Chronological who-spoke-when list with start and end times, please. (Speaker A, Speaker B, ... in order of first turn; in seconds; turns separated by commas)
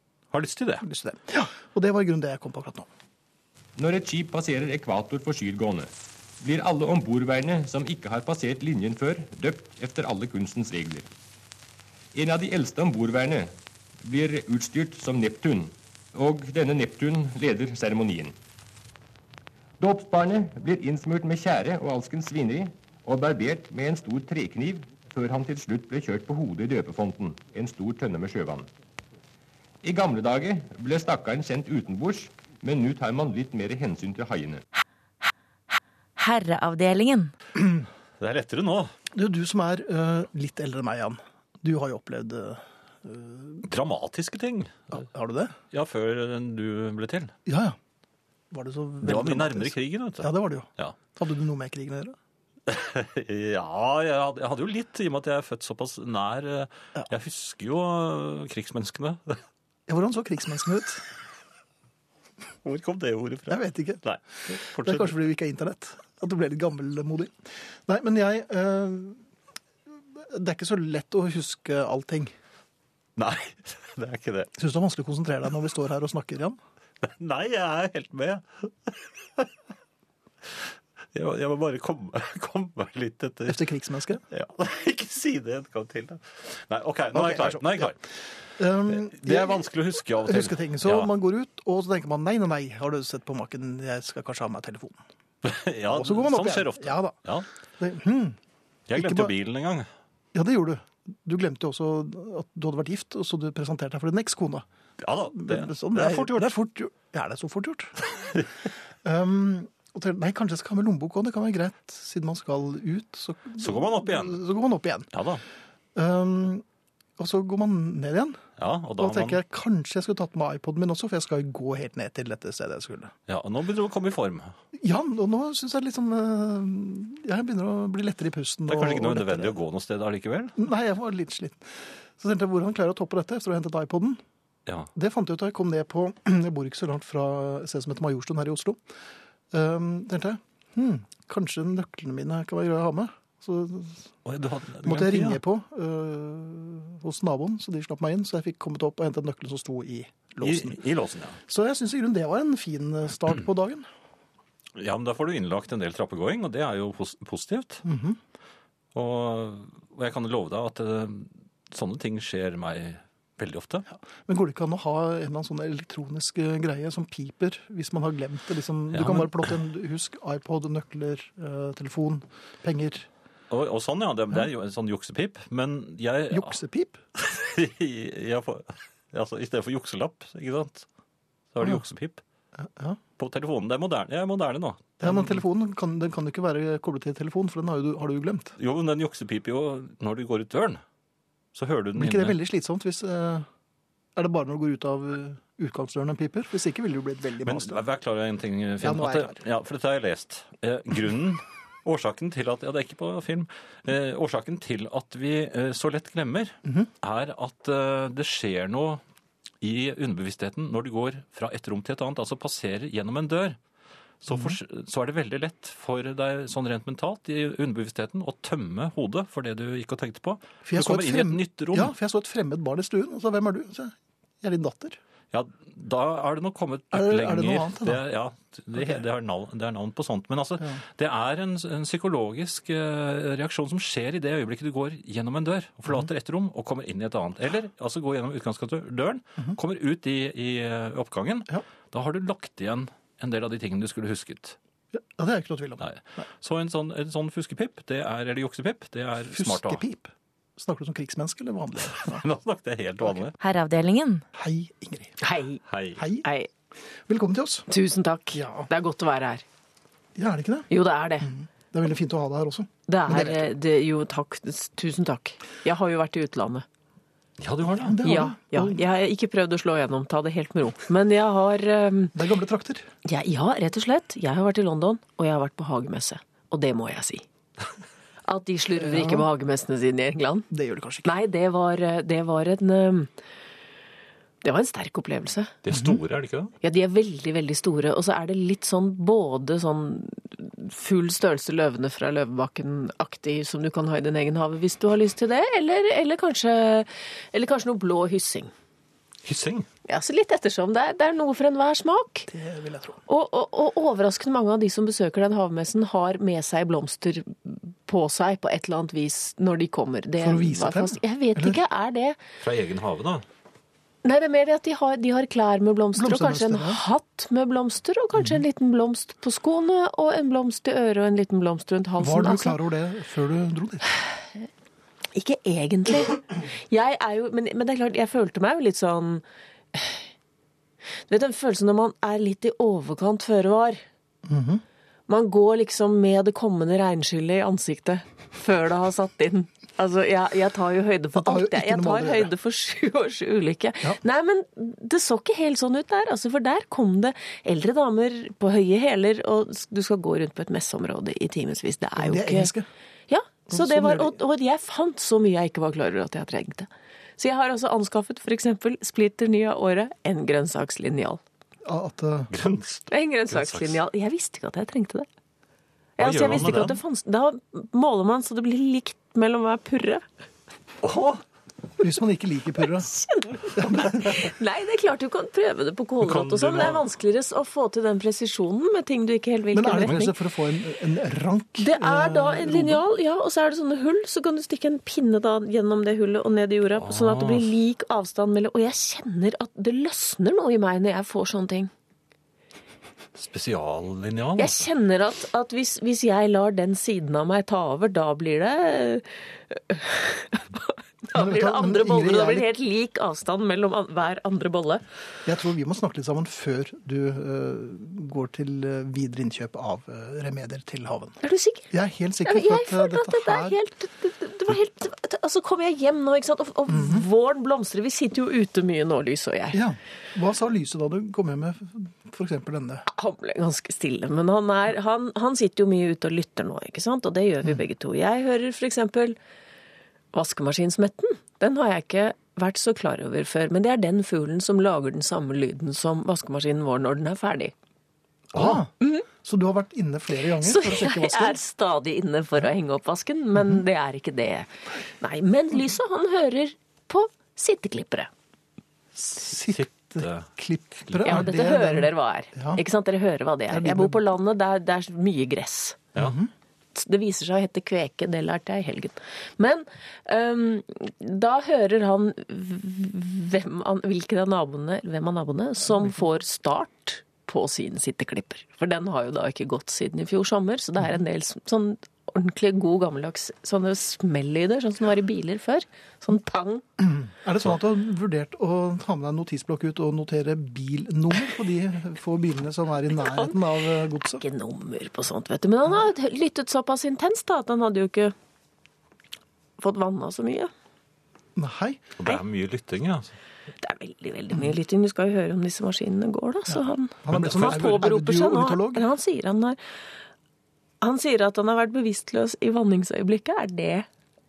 Speaker A: 0.3-0.8, Speaker B: 0.8-2.9, Speaker C: 3.8-11.1, Speaker C: 12.2-18.4, Speaker C: 19.8-28.7, Speaker C: 29.8-34.7, Speaker D: 36.2-37.3, Speaker A: 38.2-38.9, Speaker B: 39.1-43.6, Speaker A: 43.6-44.9, Speaker B: 44.9-45.5, Speaker A: 45.7-47.4, Speaker B: 47.5-47.8, Speaker B: 48.5-52.2, Speaker A: 49.0-51.0, Speaker A: 52.7-59.4, Speaker B: 59.9-61.0, Speaker A: 62.6-65.2, Speaker B: 63.5-64.0, Speaker B: 64.8-67.3, Speaker B: 67.9-69.2, Speaker B: 70.2-72.3, Speaker A: 73.2-74.5, Speaker B: 74.6-76.6, Speaker A: 77.0-79.5, Speaker A: 81.1-83.6, Speaker B: 83.5-84.2, Speaker A: 84.3-88.0, Speaker B: 87.1-88.0, Speaker B: 88.6-95.0, Speaker A: 88.9-91.1, Speaker A: 95.4-97.5, Speaker B: 95.9-97.2, Speaker B: 97.8-98.4, Speaker A: 98.9-99.9, Speaker B: 99.0-99.3, Speaker B: 100.3-108.0, Speaker A: 105.0-106.5, Speaker A: 108.2-108.5, Speaker B: 109.0-115.1, Speaker A: 113.6-114.4, Speaker A: 115.1-115.4, Speaker B: 116.0-116.6, Speaker B: 117.2-118.4, Speaker A: 118.6-119.4, Speaker B: 119.0-123.1, Speaker A: 123.3-124.5, Speaker B: 124.8-129.6, Speaker A: 128.7-130.6, Speaker B: 130.6-134.2, Speaker B: 134.9-138.8, Speaker B: 139.5-144.1, Speaker A: 144.2-145.4, Speaker B: 144.8-150.8, Speaker A: 150.4-151.4, Speaker B: 151.5-153.9, Speaker A: 154.8-157.8, Speaker B: 157.8-158.2, Speaker A: 158.9-163.9, Speaker B: 163.9-173.1, Speaker A: 168.9-169.6, Speaker A: 173.5-176.6, Speaker B: 176.3-177.0, Speaker A: 177.2-180.9, Speaker A: 181.5-182.2, Speaker B: 182.6-183.0, Speaker A: 183.2-185.4, Speaker B: 185.0-188.6, Speaker A: 188.6-190.8, Speaker A: 191.5-192.4, Speaker B: 191.9-193.5, Speaker B: 194.2-197.8, Speaker A: 197.4-209.0, Speaker B: 198.8-199.4, Speaker A: 209.6-213.6, Speaker A: 214.2-221.9, Speaker B: 214.3-214.6, Speaker B: 220.7-225.0, Speaker A: 225.3-244.6, Speaker B: 226.9-228.0, Speaker B: 244.9-246.2, Speaker A: 245.8-249.8, Speaker B: 249.3-252.2, Speaker A: 251.9-253.3, Speaker D: 253.4-254.2, Speaker B: 254.3-255.2, Speaker E: 255.2-255.6, Speaker A: 255.7-256.0, Speaker B: 256.0-256.3, Speaker E: 256.2-256.5, Speaker B: 257.1-257.7, Speaker E: 257.7-259.4, Speaker B: 258.3-258.7, Speaker B: 260.2-260.7, Speaker E: 260.7-261.3, Speaker B: 261.2-263.5, Speaker E: 262.9-266.7, Speaker A: 267.4-268.0, Speaker B: 267.7-268.8, Speaker E: 268.0-272.1, Speaker B: 272.1-272.9, Speaker E: 273.1-277.2, Speaker E: 278.2-280.5, Speaker B: 278.8-279.3, Speaker B: 280.5-281.1, Speaker E: 281.1-283.1, Speaker E: 284.4-285.6, Speaker A: 285.6-286.5, Speaker B: 285.7-286.0, Speaker E: 286.6-298.5, Speaker A: 299.2-299.7, Speaker E: 299.9-302.3, Speaker B: 302.3-303.0, Speaker E: 303.1-312.2, Speaker B: 310.2-311.6, Speaker A: 312.4-313.2, Speaker E: 314.0-322.6, Speaker B: 316.0-316.8, Speaker B: 322.0-323.9, Speaker E: 325.1-330.0, Speaker E: 331.1-333.8, Speaker B: 334.3-334.6, Speaker E: 335.1-352.5, Speaker B: 341.1-342.3, Speaker B: 352.0-352.7, Speaker E: 353.1-361.2, Speaker B: 353.5-354.2, Speaker B: 361.6-362.3, Speaker A: 362.3-363.8, Speaker E: 362.9-365.1, Speaker E: 366.0-370.0, Speaker A: 366.0-366.8, Speaker A: 370.8-371.2, Speaker B: 371.8-372.9, Speaker E: 372.8-380.1, Speaker B: 373.5-374.3, Speaker A: 376.0-376.8, Speaker B: 379.5-382.8, Speaker E: 381.6-391.7, Speaker A: 386.8-387.5, Speaker A: 393.2-394.6, Speaker E: 394.4-404.8, Speaker B: 401.1-402.5, Speaker B: 405.3-411.2, Speaker E: 411.2-411.7, Speaker B: 411.7-413.6, Speaker E: 412.2-419.6, Speaker B: 416.7-417.1, Speaker B: 419.5-422.9, Speaker E: 422.9-429.2, Speaker E: 430.1-437.5, Speaker B: 438.3-438.7, Speaker E: 438.8-439.1, Speaker B: 439.2-441.4, Speaker E: 440.4-448.1, Speaker B: 448.9-452.6, Speaker A: 449.4-450.3, Speaker A: 450.9-451.2, Speaker E: 451.1-455.9, Speaker B: 453.5-454.0, Speaker B: 456.0-456.3, Speaker E: 456.8-476.6, Speaker B: 476.8-484.2, Speaker E: 483.0-488.1, Speaker E: 489.6-490.5, Speaker B: 491.4-491.9, Speaker A: 492.0-493.1, Speaker E: 493.6-499.6, Speaker B: 496.5-498.9, Speaker A: 497.1-497.9, Speaker E: 500.8-503.9